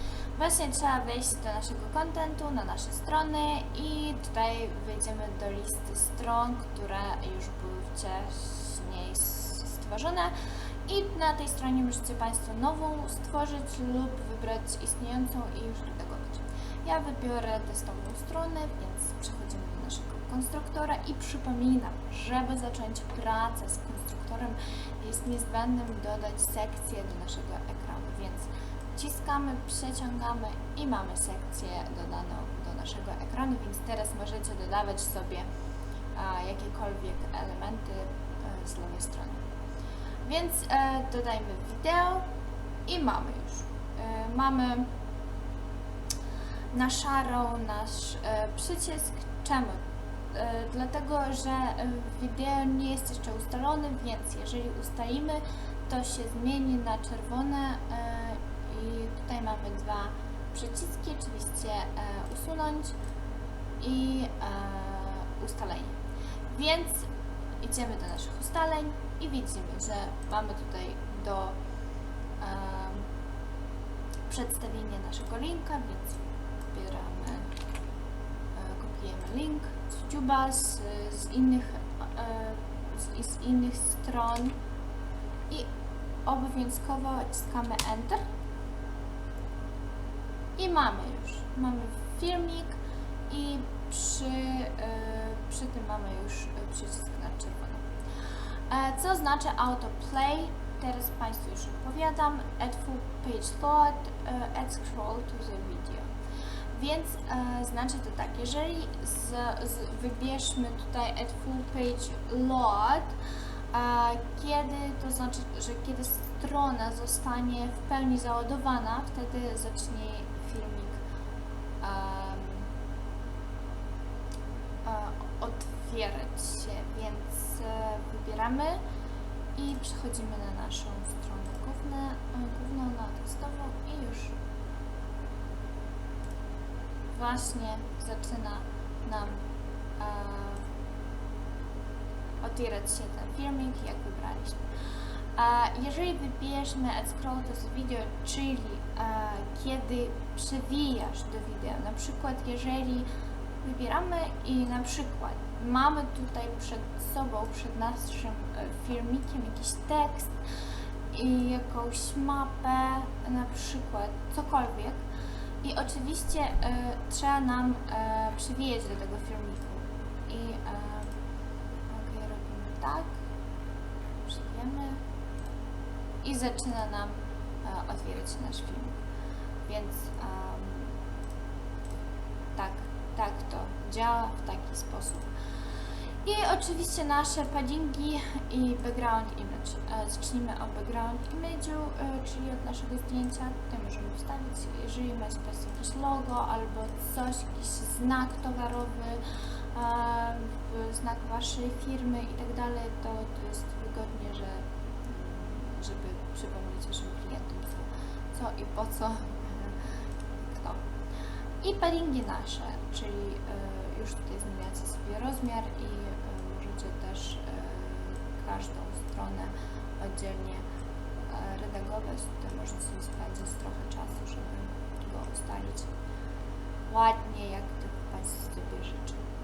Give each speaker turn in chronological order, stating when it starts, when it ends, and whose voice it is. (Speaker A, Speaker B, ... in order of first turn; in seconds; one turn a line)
Speaker A: 0.4-10.3
Speaker A: 10.9-35.5
Speaker A: 36.1-39.4
Speaker A: 40.2-42.2
Speaker A: 42.9-44.9
Speaker A: 46.7-49.8
Speaker A: 50.3-62.9
Speaker A: 63.8-65.9
Speaker A: 66.5-67.1
Speaker A: 67.6-71.6
Speaker A: 72.4-73.1
Speaker A: 74.3-77.5
Speaker A: 78.5-84.5
Speaker A: 86.2-88.2
Speaker A: 90.6-92.8
Speaker A: 93.3-97.8
Speaker A: 98.7-106.1
Speaker A: 106.7-113.1
Speaker A: 113.7-121.0
Speaker A: 121.8-122.7
Speaker A: 124.8-128.8
Speaker A: 129.6-134.3
Speaker A: 137.1-139.4
Speaker A: 140.0-140.7
Speaker A: 142.4-144.7
Speaker A: 145.3-153.1
Speaker A: 153.6-160.4
Speaker A: 161.1-165.0
Speaker A: 165.6-171.2
Speaker A: 171.9-173.2
Speaker A: 174.3-175.0
Speaker A: 176.2-178.9
Speaker A: 179.7-180.9
Speaker A: 182.6-185.3
Speaker A: 186.2-199.2
Speaker A: 199.7-209.8
Speaker A: 210.6-210.8
Speaker A: 211.6-220.6
Speaker A: 221.3-225.9
Speaker A: 226.9-229.2